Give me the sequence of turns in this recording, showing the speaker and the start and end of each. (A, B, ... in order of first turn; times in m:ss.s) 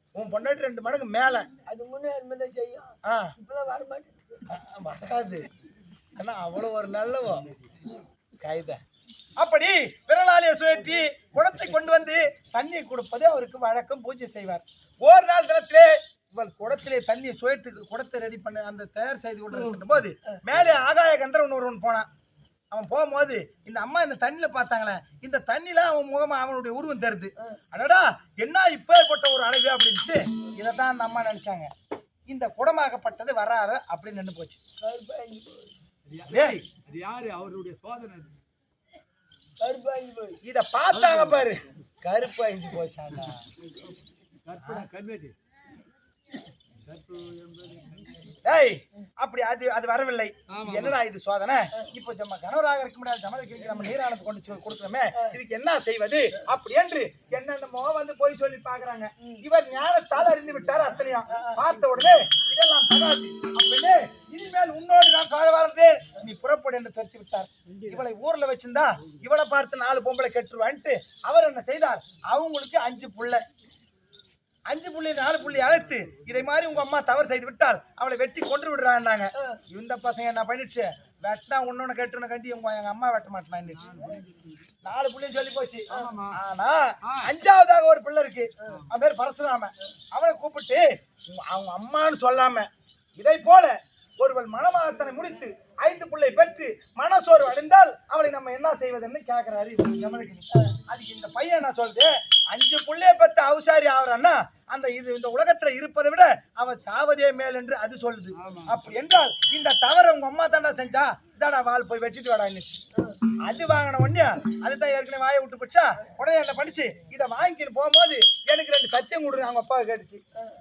0:00.2-0:01.5 A
0:01.7-0:04.4 B
0:03.1-0:03.3 A
0:04.5-0:05.5 A
0:06.2-0:07.5 A
0:08.4-0:08.8 A
0:09.4-0:22.1 A
0:22.7-0:31.7 A
0:32.3-0:34.6 A
0:34.8-0:35.8 B
0:36.1-0:38.4 C
0:36.3-0:36.6 A
0:39.6-0:40.4 B
0:40.4-0:43.5 A
0:40.9-0:41.5 C
0:43.6-0:45.4 C
0:46.8-0:48.3 C
0:48.4-1:13.4 A
0:50.5-0:51.0 C
1:14.7-1:24.1 A
1:15.6-1:16.2 C
1:23.8-1:24.7 C
1:24.8-1:52.8 A
1:25.9-1:26.4 C
1:27.1-1:27.3 C
1:28.7-1:28.9 C
1:48.4-1:48.8 C
1:53.4-2:00.2 A